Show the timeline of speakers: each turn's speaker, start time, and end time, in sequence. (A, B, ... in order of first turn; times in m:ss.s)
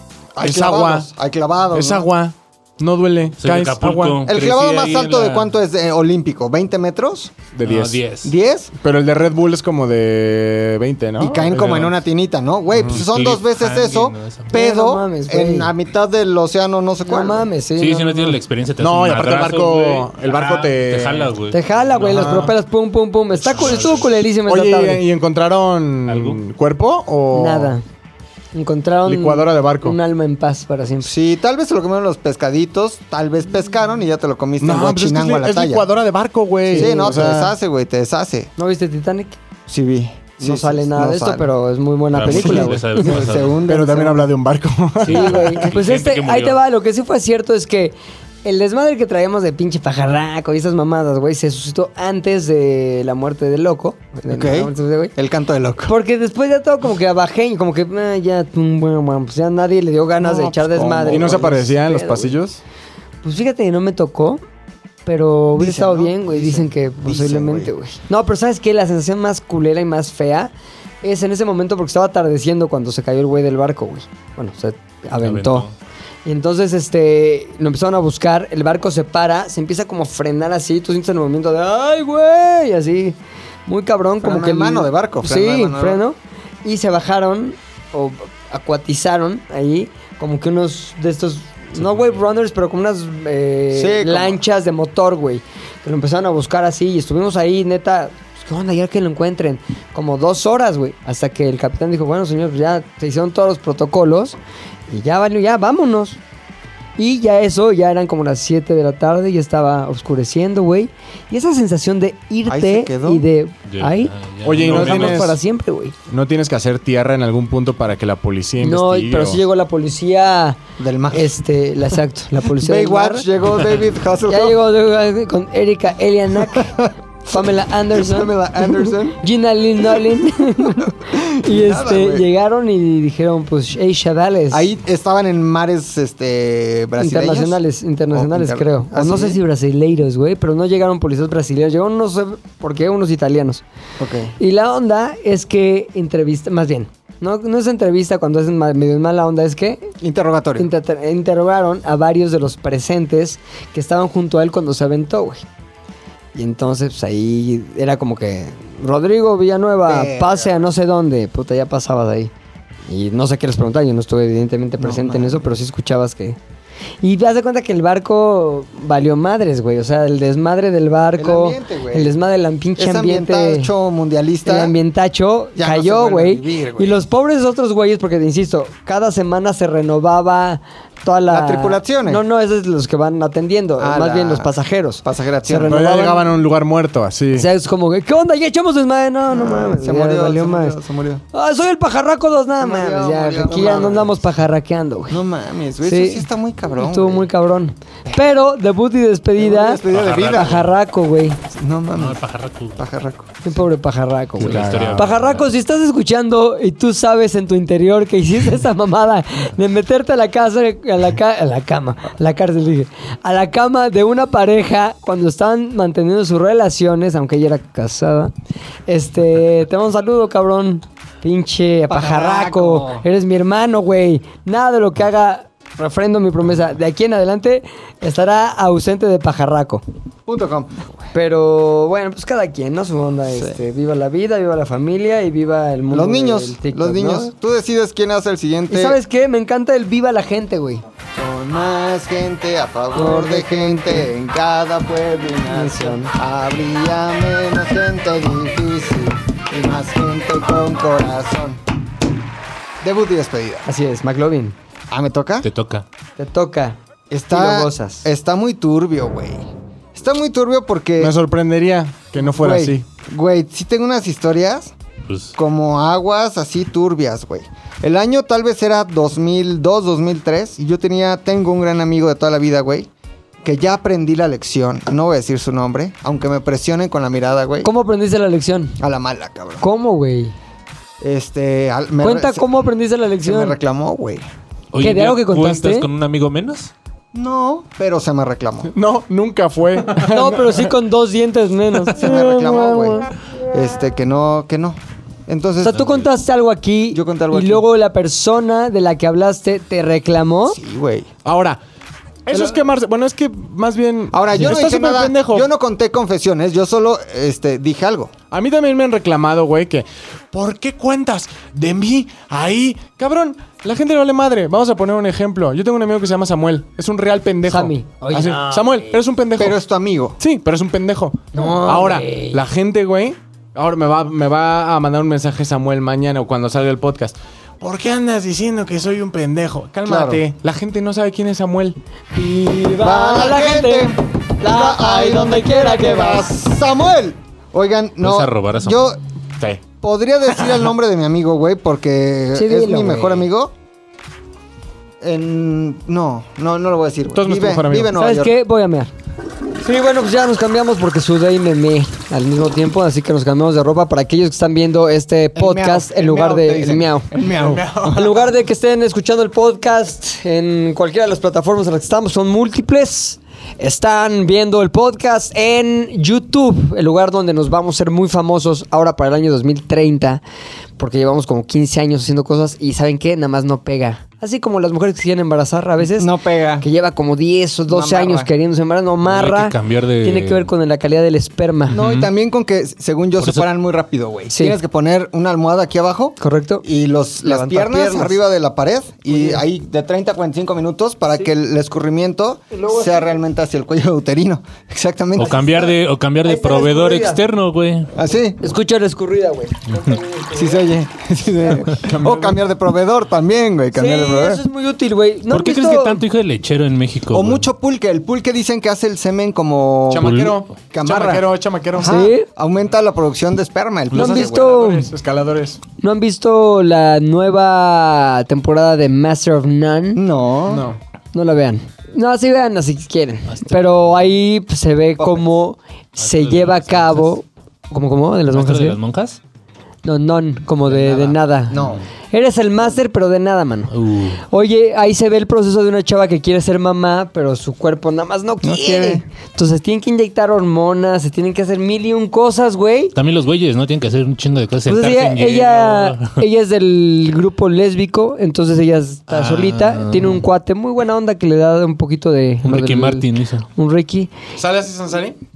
0:00.4-0:02.1 A
0:00.4-0:01.1 B
0:01.7-0:04.2 B
0:03.4-0:05.5 C
0:04.2-0:07.4 A
0:07.5-0:08.0 B
0:07.6-0:08.3 C
0:08.2-0:08.7 A
0:08.8-0:11.9 B
0:11.2-0:17.5 A
0:12.7-0:13.0 B
0:12.9-0:14.5 C
0:14.5-0:15.7 D
0:17.0-0:18.4 D
0:17.8-0:22.4 C
0:18.8-0:21.3 B
0:21.5-0:25.0 D
0:22.0-0:22.5 B
0:23.4-0:24.1 C
0:24.4-0:27.7 B
0:26.1-0:26.4 C
0:27.3-0:27.8 D
0:28.5-0:31.1 D
0:29.0-0:30.0 B
0:31.0-0:35.8 A
0:34.6-0:37.5 B
0:36.7-0:37.3 D
0:36.7-0:38.5 A
0:38.6-0:39.4 D
0:39.7-0:41.5 A
0:40.4-0:43.2 D
0:42.1-0:43.6 C
0:42.3-0:44.3 A
0:43.6-0:45.7 B
0:45.0-0:46.6 C
0:45.0-0:55.1 D
0:54.3-0:55.9 A
0:55.8-1:02.4 D
1:00.2-1:01.6 A
1:01.1-1:02.6 B
1:03.2-1:04.4 D
1:05.0-1:10.5 D
1:05.6-1:07.7 A
1:11.0-1:15.7 D
1:15.2-1:15.7 C
1:16.2-1:23.2 D
1:23.7-1:44.4 D
1:24.2-1:26.0 A
1:31.8-1:32.0 C
1:33.7-1:34.4 A
1:44.9-1:46.2 D
1:47.0-1:55.9 D
1:52.5-1:53.2 A
1:53.7-1:55.3 C
1:54.4-1:55.4 B
1:56.1-1:59.4 B
1:58.6-2:00.6 D
2:00.8-2:01.3 A
2:01.1-2:03.2 D
2:02.5-2:04.6 A
2:04.3-2:06.7 D
2:06.5-2:09.2 A
2:07.3-2:14.7 D
2:10.7-2:12.3 A
2:14.5-2:17.6 A
2:17.0-2:23.6 D
2:18.1-2:19.4 A
2:24.0-2:24.3 A
2:24.4-2:29.9 D
2:30.0-2:30.7 A
2:30.6-2:35.4 D
2:36.3-2:42.3 D
2:39.8-2:40.6 A
2:42.9-2:46.4 D
2:44.8-2:45.4 A
2:47.0-2:53.7 D
2:51.2-2:52.1 A
2:52.8-2:54.7 A
2:54.4-3:06.3 D
2:55.6-2:57.0 A
3:01.3-3:02.2 A
3:03.8-3:04.5 A
3:05.0-3:05.8 A
3:05.6-3:07.5 B
3:07.3-3:10.8 D
3:09.3-3:11.2 A
3:11.3-3:15.2 D
3:12.6-3:14.1 A
3:15.1-3:17.3 A
3:15.8-3:21.4 D
3:19.4-3:20.6 A
3:19.9-3:20.7 C
3:21.5-3:22.2 A
3:21.9-3:22.8 C
3:22.8-3:23.4 A
3:23.4-3:38.3 D
3:24.4-3:25.1 B
3:24.4-3:25.5 C
3:38.9-3:49.8 D
3:41.9-3:43.0 A
3:50.3-3:51.0 A
3:51.1-3:57.3 D
3:55.9-3:59.0 A
3:58.7-4:00.8 D
4:01.1-4:11.6 A
4:02.9-4:04.1 D
4:05.5-4:06.1 D
4:12.8-4:13.6 A
4:13.6-4:14.5 D
4:14.9-4:15.4 A
4:15.4-4:15.8 C
4:16.2-4:16.8 D
4:17.1-4:19.4 A
4:17.3-4:18.0 D
4:19.9-4:21.1 A
4:21.0-4:22.8 B
4:22.2-4:24.7 A
4:25.1-4:25.3 C
4:25.4-4:32.9 A
4:33.4-4:37.7 A
4:37.6-4:38.8 D
4:38.8-4:39.6 A
4:39.6-4:40.3 D
4:41.0-4:42.5 A
4:42.0-4:43.6 D
4:43.2-4:44.2 A
4:44.7-4:46.7 C
4:44.8-4:45.9 D
4:47.1-4:48.7 A
4:48.7-4:50.7 B
4:50.0-4:53.1 D
4:51.9-4:56.0 A
4:55.6-5:00.6 D
4:56.9-4:57.6 A
5:00.5-5:01.1 A
5:01.2-5:01.6 B
5:02.2-5:05.5 B
5:04.1-5:08.1 A
5:08.3-5:19.6 B
5:17.4-5:19.0 D
5:19.4-5:20.2 A
5:20.2-5:31.8 B
5:21.3-5:22.4 D
5:29.8-5:30.2 A
5:32.1-5:36.3 D
5:32.8-5:39.0 A
5:38.0-5:38.8 C
5:39.8-5:43.5 A
5:42.3-5:43.3 D
5:45.0-5:48.3 A
5:47.1-5:47.9 B
5:48.0-5:48.9 D
5:49.6-5:57.1 D
5:55.3-5:58.2 A
5:57.2-5:58.2 B
5:57.9-6:10.2 D
6:10.8-6:21.8 D
6:15.9-6:16.6 A
6:17.7-6:18.3 A
6:19.0-6:20.5 C
6:21.7-6:35.6 A
6:21.7-6:22.1 C
6:23.2-6:23.5 C
6:24.3-6:24.6 D
6:26.2-6:26.6 D
6:27.2-6:28.2 D
6:29.1-6:29.4 D
6:32.5-6:33.2 D
6:35.1-6:37.9 C
6:35.2-6:37.2 D
6:37.9-6:38.4 A
6:38.4-6:40.7 D
6:40.3-6:44.4 A
6:41.8-6:42.4 B
6:43.7-6:46.0 D
6:45.3-6:47.5 C
6:47.1-6:50.2 A
6:49.9-6:52.1 B
6:50.0-6:50.4 C
6:50.7-6:54.6 A
6:51.8-6:52.3 D
6:53.9-6:55.6 B
6:53.9-6:54.9 D
6:55.8-7:00.0 D
6:59.9-7:00.7 A
7:00.5-7:00.8 B
7:01.1-7:08.8 D
7:03.3-7:04.1 C
7:05.0-7:05.3 A
7:06.0-7:07.1 C
7:08.3-7:09.2 C
7:09.8-7:13.7 D
7:10.7-7:11.8 A
7:13.7-7:14.2 C
7:14.3-7:22.9 D
7:18.4-7:19.0 A
7:22.9-7:26.2 C
7:24.6-7:34.1 D
7:29.1-7:30.2 C
7:32.4-7:33.4 C
7:34.4-7:35.2 B